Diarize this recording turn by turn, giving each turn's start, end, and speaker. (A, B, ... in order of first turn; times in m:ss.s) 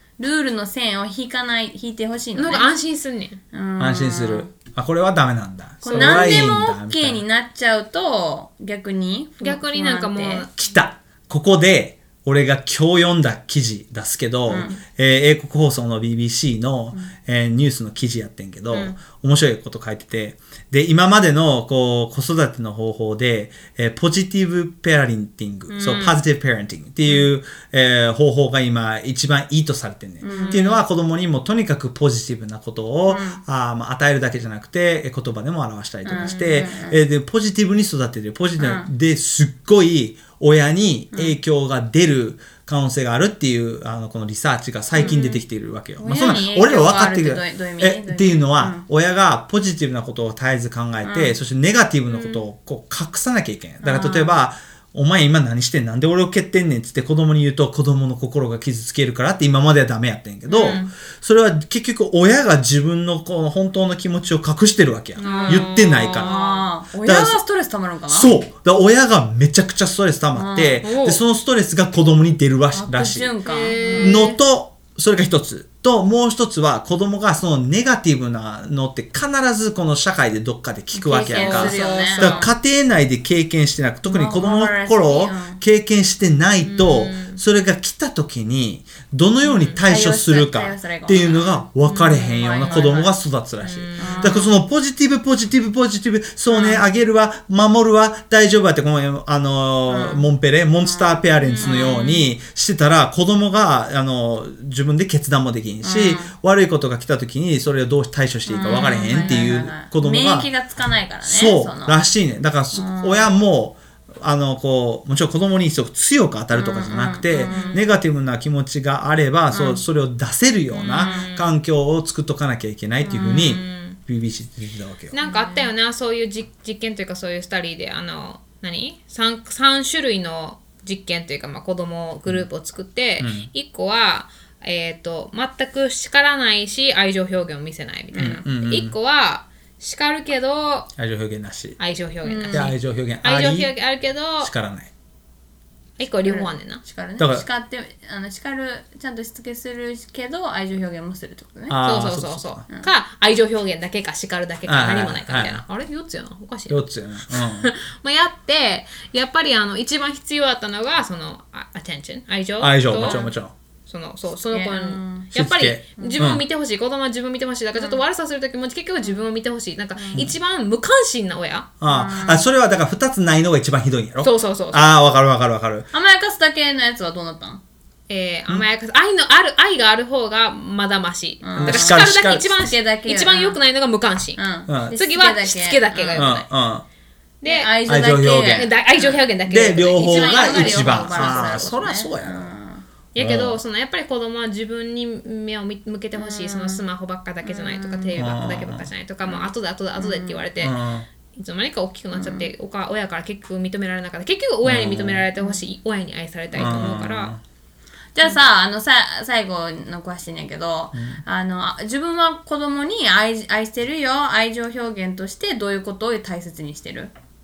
0:00.2-0:02.7 A
0:02.4-0:03.4 B
0:03.5-0:04.5 A
0:03.8-0:07.2 C
0:05.8-0:10.5 A
0:05.8-0:06.4 B
0:09.4-0:10.6 B
0:10.6-1:06.3 C
0:14.5-0:14.8 A
0:18.7-0:19.0 B
0:25.7-0:26.1 A
0:25.8-0:26.2 B
0:30.2-0:30.8 A
0:30.3-0:30.7 B
0:33.1-0:33.4 A
0:36.0-0:37.0 A
0:38.6-0:38.9 A
0:45.0-0:45.4 A
0:45.0-0:45.3 B
0:46.0-0:48.8 A
0:51.0-0:51.4 A
0:53.8-0:54.4 A
1:00.5-1:00.9 A
1:00.6-1:00.9 B
1:05.2-1:08.3 A
1:05.2-1:06.7 B
1:07.0-1:07.4 C
1:08.1-1:13.3 C
1:10.3-1:10.8 A
1:10.8-1:11.2 B
1:12.7-1:14.3 A
1:13.4-1:14.4 B
1:13.9-1:50.5 C
1:20.9-1:22.5 A
1:21.1-1:22.5 B
1:24.1-1:25.6 A
1:26.6-1:27.4 B
1:29.4-1:29.8 B
1:29.8-1:33.1 A
1:33.6-1:34.5 B
1:34.0-1:34.5 A
1:36.5-1:36.8 A
1:39.9-1:40.3 A
1:40.8-1:42.2 A
1:41.4-1:42.0 B
1:45.8-1:46.3 A
1:48.5-1:52.0 A
1:48.6-1:49.3 B
1:51.2-2:05.2 C
1:52.7-1:53.3 A
1:56.5-1:57.8 A
1:57.3-1:57.8 B
1:59.5-1:59.8 A
2:00.7-2:01.6 B
2:00.9-2:01.3 A
2:03.0-2:03.7 A
2:03.2-2:04.0 B
2:05.1-2:20.9 B
2:05.2-2:05.7 A
2:13.2-2:13.5 C
2:18.1-2:18.4 A
2:18.2-2:18.9 C
2:21.0-2:21.8 C
2:21.8-2:24.5 B
2:22.2-2:22.7 A
2:22.5-2:23.7 C
2:24.4-2:24.9 C
2:26.0-2:26.8 B
2:26.2-2:31.8 A
2:27.2-2:27.4 C
2:31.7-2:32.6 C
2:31.8-2:43.2 B
2:34.7-2:35.6 C
2:36.7-2:37.7 C
2:42.6-2:43.5 C
2:43.0-2:43.3 A
2:43.9-2:51.7 B
2:44.5-2:45.3 A
2:45.4-2:46.4 C
2:46.0-2:46.2 A
2:47.8-2:48.0 A
2:50.0-2:50.3 A
2:51.8-2:55.9 C
2:51.9-2:52.5 A
2:54.2-2:54.9 B
2:55.9-2:57.6 A
2:58.1-3:06.4 B
3:01.4-3:03.6 A
3:01.6-3:02.7 C
3:04.4-3:06.4 A
3:04.7-3:05.0 C
3:06.2-3:06.8 C
3:07.4-3:07.8 B
3:07.4-3:09.2 A
3:07.8-3:08.7 C
3:08.5-3:11.7 B
3:09.5-3:12.5 C
3:10.0-3:12.8 A
3:13.2-3:20.8 B
3:13.2-3:13.6 C
3:16.2-3:16.8 A
3:17.4-3:18.3 A
3:18.1-3:18.9 C
3:19.2-3:20.4 A
3:20.6-3:21.1 C
3:21.4-3:27.4 B
3:22.1-3:22.5 A
3:24.6-3:25.3 C
3:26.5-3:27.4 C
3:28.2-3:37.1 A
3:30.9-3:31.2 C